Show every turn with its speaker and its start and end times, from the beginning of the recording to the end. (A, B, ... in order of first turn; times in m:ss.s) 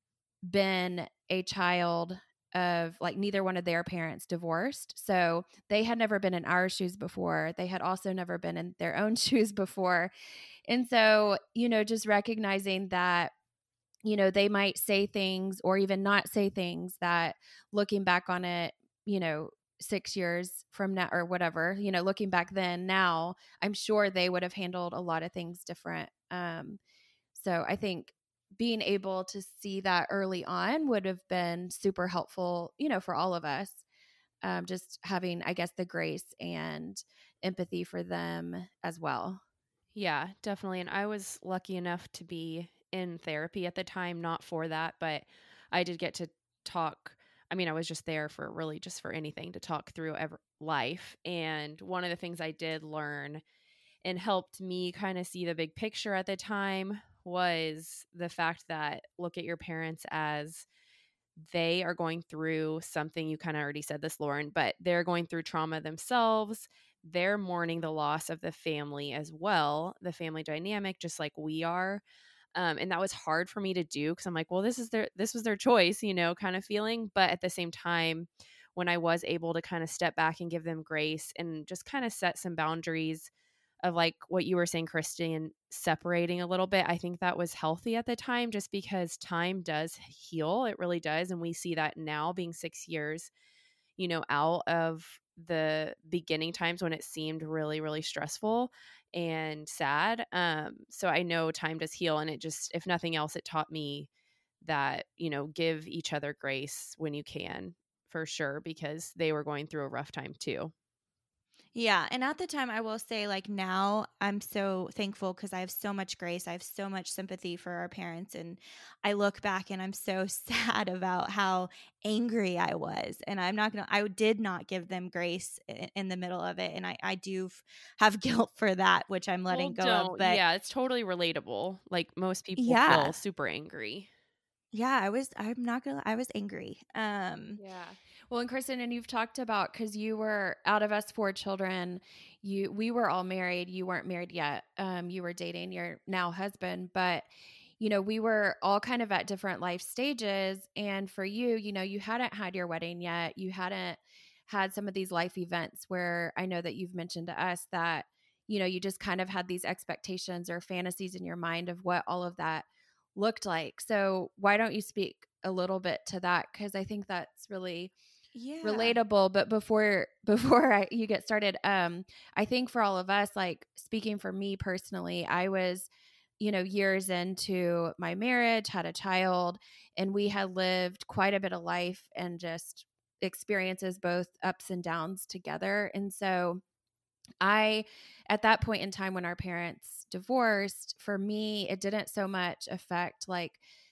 0:00.4-0:10.1 A
0:10.7-0:13.3 A
0:14.0-0:26.8 A
0:27.3-0:33.8 A
0:34.4-0:39.4 A
0:39.9-0:53.4 B
0:54.0-1:00.6 B
1:01.4-1:12.0 B
1:12.6-1:23.3 B
1:23.8-1:33.3 B
1:34.0-1:44.1 B
1:44.6-1:50.7 B
1:51.7-2:10.4 C
2:09.5-2:14.1 B
2:12.6-2:13.2 C
2:14.7-2:17.6 C
2:17.6-2:47.9 A
2:48.3-2:49.0 C
2:48.6-3:06.6 A
3:07.4-3:13.6 A